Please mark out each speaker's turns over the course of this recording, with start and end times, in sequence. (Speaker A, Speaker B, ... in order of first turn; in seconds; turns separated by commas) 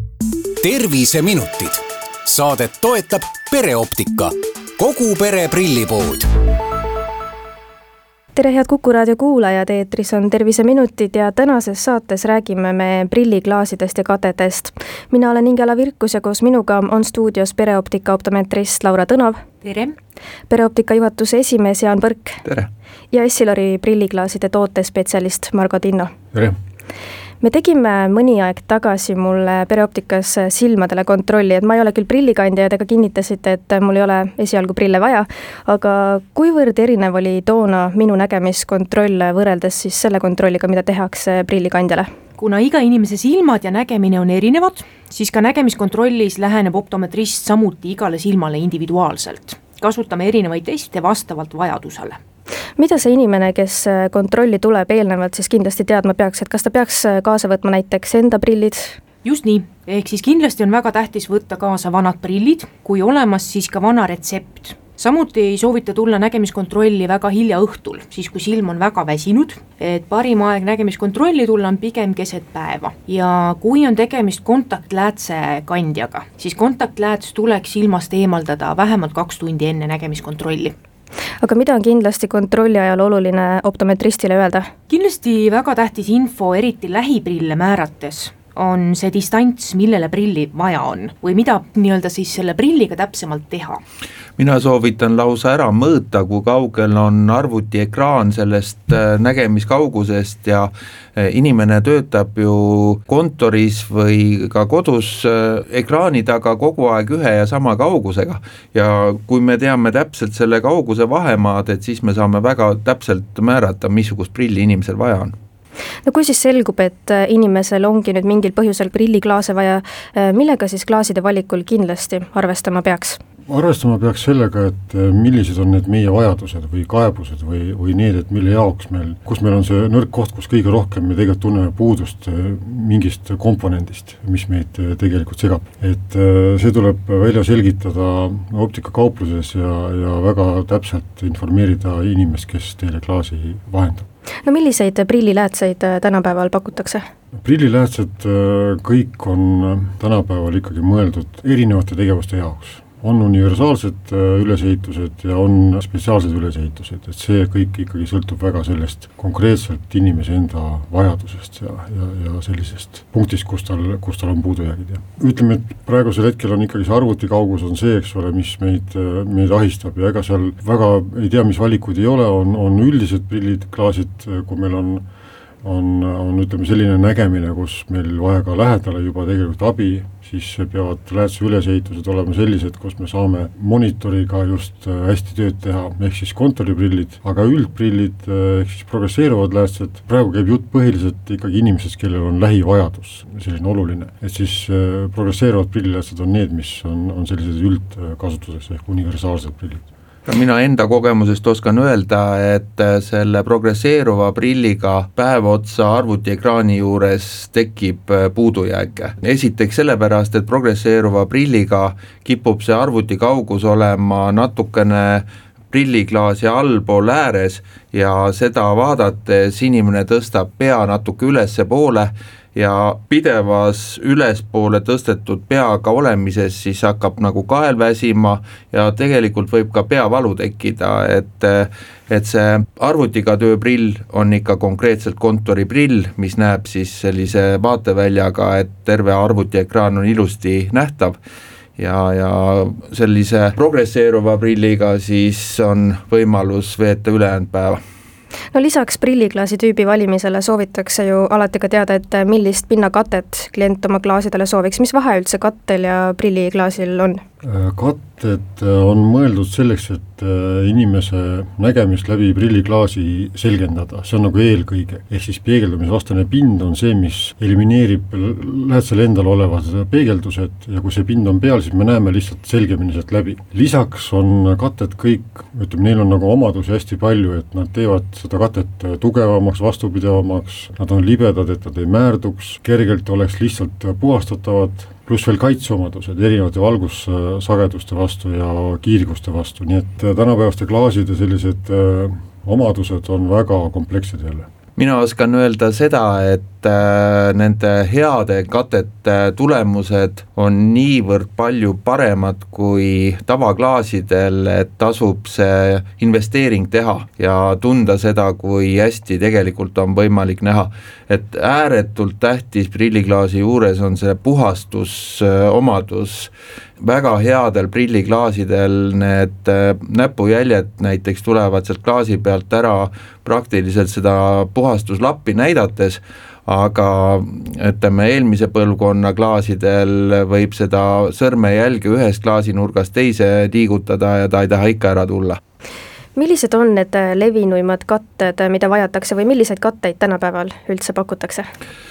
Speaker A: 0.6-6.3, Speaker B: 8.3-19.4, Speaker C: 19.6-19.9, Speaker B: 20.5-22.4, Speaker D: 22.4-22.7, Speaker B: 23.1-26.1, Speaker B: 27.4-42.1, Speaker C: 42.4-52.2, Speaker B: 52.8-58.9, Speaker C: 59.2-80.7, Speaker B: 81.4-84.7, Speaker C: 84.9-93.8, Speaker D: 94.4-115.3, Speaker B: 116.0-123.2, Speaker E: 123.5-144.1, Speaker B: 144.4-147.0, Speaker E: 147.4-175.0, Speaker E: 175.6-199.8, Speaker D: 200.2-241.2, Speaker D: 241.8-247.8, Speaker B: 248.5-257.2, Speaker E: 257.4-294.5, Speaker D: 294.8-335.4, Speaker B: 336.1-341.4